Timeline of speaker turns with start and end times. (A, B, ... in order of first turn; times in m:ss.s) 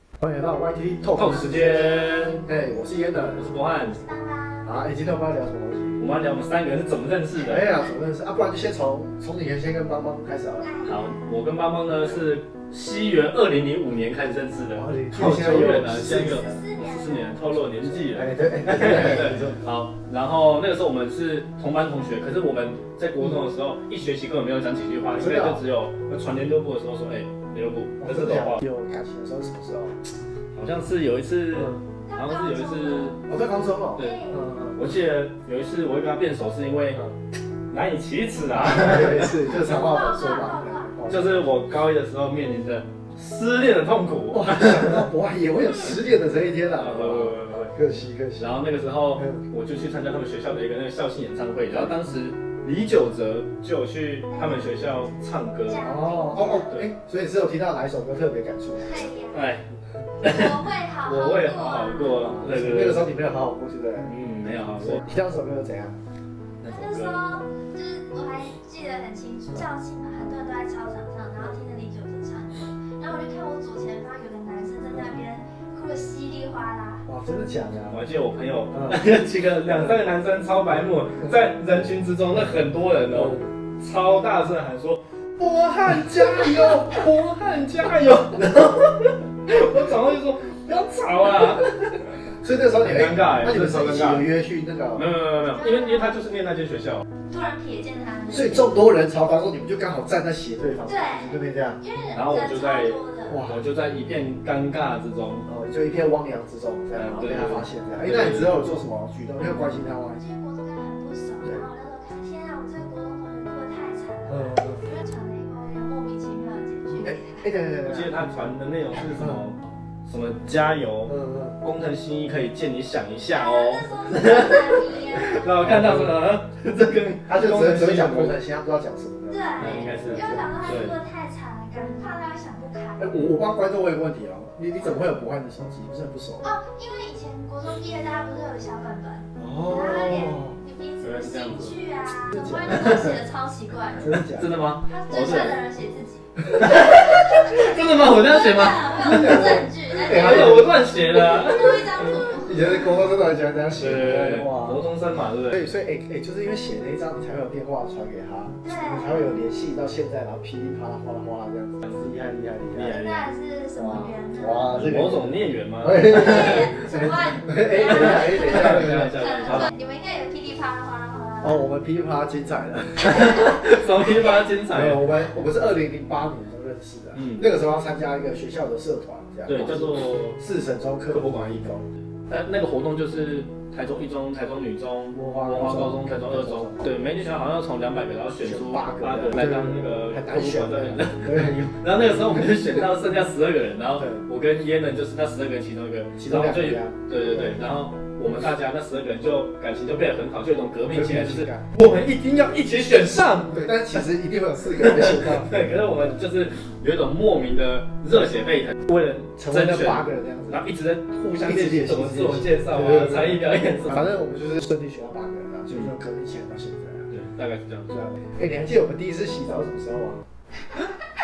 0:00.2-0:03.5 A
0:01.1-0:02.4 B
0:03.4-0:04.0 B
0:03.7-0:04.7 C
0:04.6-0:06.0 A
0:06.0-0:07.7 B
0:07.4-0:10.7 A
0:10.6-0:11.3 C
0:10.8-0:28.6 B
0:11.9-0:12.2 A
0:14.7-0:16.6 A
0:15.9-0:17.5 C
0:17.4-0:19.7 A
0:25.1-0:25.6 A
0:28.0-0:30.0 A
0:30.5-0:33.2 B
0:31.5-0:31.8 A
0:32.1-0:33.3 C
0:33.2-0:34.8 A
0:34.0-0:34.4 C
0:34.0-0:37.1 B
0:37.7-0:39.7 B
0:38.5-0:41.4 A
0:39.6-0:41.0 C
0:41.1-0:45.0 B
0:44.3-0:48.6 A
0:46.8-0:47.7 B
0:48.4-0:55.8 B
0:49.2-0:49.4 A
0:51.7-0:51.9 A
0:54.3-0:56.8 C
0:55.8-0:59.1 A
0:56.7-0:56.9 B
0:58.8-0:59.6 C
0:59.3-0:59.6 B
1:00.2-1:03.1 B
1:00.2-1:02.3 C
1:02.2-1:04.1 A
1:04.0-1:05.1 B
1:04.7-1:06.0 A
1:06.6-1:07.2 B
1:06.6-1:17.0 C
1:17.0-1:18.0 A
1:17.9-1:32.1 B
1:18.7-1:19.0 A
1:19.7-1:20.0 A
1:23.1-1:23.5 A
1:25.8-1:26.8 A
1:28.4-1:28.7 A
1:32.4-1:35.1 A
1:32.8-1:34.3 B
1:35.0-1:37.0 B
1:35.4-1:36.2 C
1:37.3-1:38.7 C
1:38.3-1:41.8 A
1:40.8-1:43.4 C
1:42.1-1:45.5 B
1:43.3-1:43.6 A
1:45.4-1:50.2 A
1:46.9-1:48.6 B
1:50.1-1:57.4 C
1:54.3-1:54.8 A
1:57.0-1:58.5 A
1:57.8-2:08.4 B
1:59.1-1:59.4 A
2:01.0-2:01.6 A
2:03.3-2:05.7 C
2:05.6-2:06.2 A
2:07.3-2:10.5 A
2:09.3-2:13.1 C
2:09.6-2:10.9 B
2:13.0-2:16.5 A
2:16.4-2:24.0 C
2:19.4-2:20.6 A
2:21.0-2:21.8 B
2:22.3-2:23.2 A
2:22.7-2:23.1 B
2:24.0-2:24.5 A
2:24.0-2:25.6 B
2:24.8-2:32.8 C
2:26.5-2:32.4 B
2:29.0-2:30.7 A
2:32.4-2:34.8 A
2:33.7-2:35.7 B
2:35.5-2:43.0 A
2:38.6-2:39.3 C
2:42.7-2:43.3 B
2:42.9-2:44.7 C
2:43.7-2:49.7 A
2:44.7-2:46.8 B
2:46.1-2:51.6 C
2:47.7-2:49.7 B
2:51.4-2:53.5 A
2:53.0-2:55.2 B
2:54.0-2:54.6 C
2:54.6-3:01.8 A
2:57.1-2:57.5 B
2:59.4-3:00.4 B
3:01.1-3:01.7 B
3:02.3-3:24.0 B
3:05.1-3:06.9 A
3:08.4-3:12.9 A
3:14.0-3:14.2 A
3:16.1-3:17.6 A
3:20.9-3:21.7 A
3:23.5-3:26.1 A
3:24.7-3:34.1 B
3:29.4-3:30.7 A
3:31.4-3:37.1 A
3:35.7-3:35.9 B
3:37.1-3:38.0 B
3:37.9-3:40.2 A